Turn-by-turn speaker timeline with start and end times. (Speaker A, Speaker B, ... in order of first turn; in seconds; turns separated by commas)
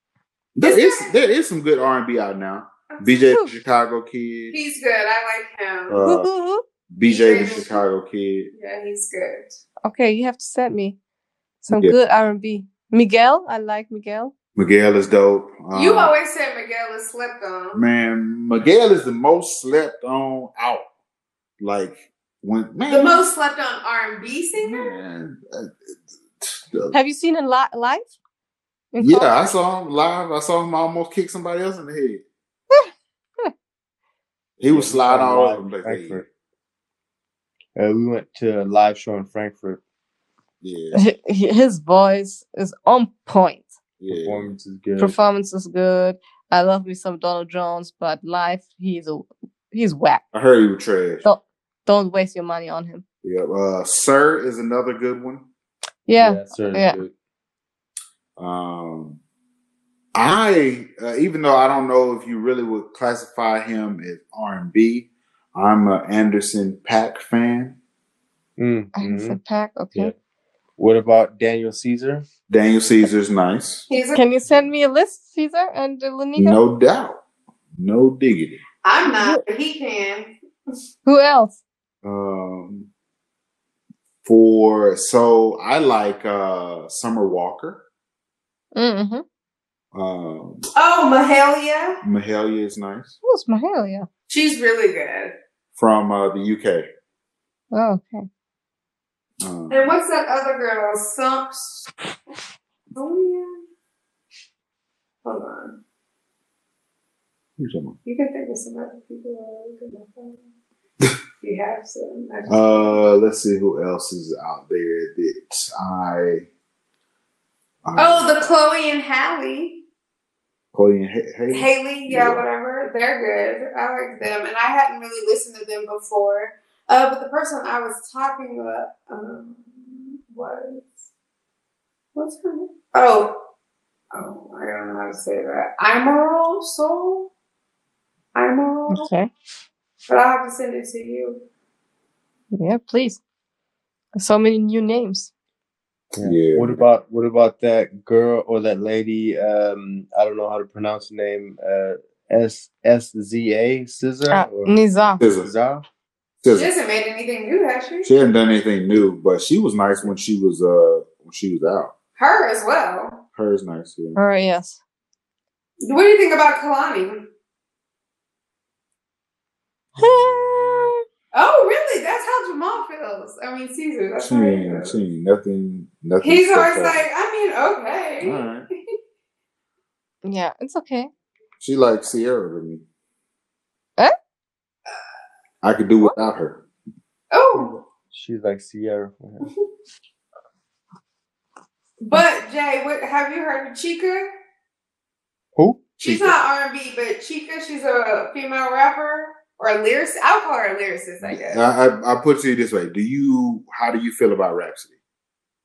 Speaker A: 0.6-4.6, Speaker B: 0.6-1.1, Speaker B: 2.9-3.2, Speaker B: 4.5-6.0, Speaker A: 5.9-6.3, Speaker C: 6.0-6.6, Speaker A: 6.9-8.5, Speaker B: 7.0-7.8, Speaker B: 8.5-9.6, Speaker C: 9.8-11.0, Speaker C: 11.6-14.3, Speaker A: 14.6-16.1, Speaker B: 15.7-17.8, Speaker A: 17.8-20.9, Speaker A: 21.6-23.2, Speaker B: 22.9-24.9, Speaker A: 24.6-25.8, Speaker A: 26.4-26.9, Speaker C: 26.9-28.1, Speaker C: 28.9-29.5, Speaker A: 29.0-32.2, Speaker A: 34.6-36.2, Speaker D: 34.7-36.3, Speaker D: 37.8-39.8, Speaker A: 40.6-41.0, Speaker C: 40.9-43.7, Speaker A: 44.0-44.5, Speaker D: 44.1-45.2, Speaker C: 45.0-50.2, Speaker A: 50.3-51.2, Speaker C: 51.2-53.0, Speaker A: 53.2-55.5, Speaker C: 56.1-57.0, Speaker D: 56.2-57.1, Speaker A: 58.4-59.2, Speaker A: 60.1-67.8, Speaker D: 68.6-69.4, Speaker C: 69.0-70.1, Speaker D: 70.8-72.3, Speaker A: 72.5-73.9, Speaker B: 73.9-74.2, Speaker C: 74.1-76.6, Speaker A: 76.4-77.2, Speaker A: 77.8-78.6, Speaker B: 78.8-80.3, Speaker C: 79.1-79.4, Speaker C: 81.0-81.6, Speaker A: 82.0-82.9, Speaker A: 84.2-87.8, Speaker C: 88.8-89.2, Speaker A: 89.9-90.7, Speaker B: 90.8-92.0, Speaker A: 92.0-93.2, Speaker C: 93.2-94.1, Speaker B: 94.3-95.3, Speaker A: 95.8-96.9, Speaker C: 97.7-98.3, Speaker A: 99.4-99.9, Speaker B: 99.7-101.9, Speaker B: 103.0-103.6, Speaker B: 105.2-105.8, Speaker A: 107.6-108.0, Speaker B: 108.0-110.4, Speaker B: 111.4-113.0, Speaker A: 112.5-116.5, Speaker A: 117.8-118.3, Speaker B: 118.0-119.8, Speaker A: 120.7-122.5, Speaker B: 121.5-131.0, Speaker B: 132.2-133.4, Speaker B: 134.1-137.3, Speaker B: 138.3-139.1, Speaker C: 138.9-139.3, Speaker B: 140.1-141.4, Speaker C: 142.5-143.2, Speaker C: 144.2-145.3, Speaker D: 146.1-155.8, Speaker A: 146.2-146.8, Speaker C: 154.3-155.2, Speaker A: 155.2-155.5, Speaker A: 156.4-156.7, Speaker B: 156.5-158.1, Speaker A: 158.1-161.9, Speaker B: 162.2-163.2, Speaker A: 163.4-164.2, Speaker C: 164.2-164.8, Speaker B: 165.8-167.3, Speaker C: 170.0-171.0, Speaker B: 171.3-175.0, Speaker A: 174.2-177.0, Speaker B: 176.2-178.5, Speaker A: 178.2-178.7, Speaker C: 180.2-181.1, Speaker A: 181.6-182.8, Speaker A: 185.6-186.6, Speaker B: 187.3-187.8, Speaker D: 188.1-189.5, Speaker B: 192.0-194.3, Speaker D: 195.6-195.8, Speaker B: 196.0-201.6, Speaker A: 196.0-196.4, Speaker A: 201.2-204.9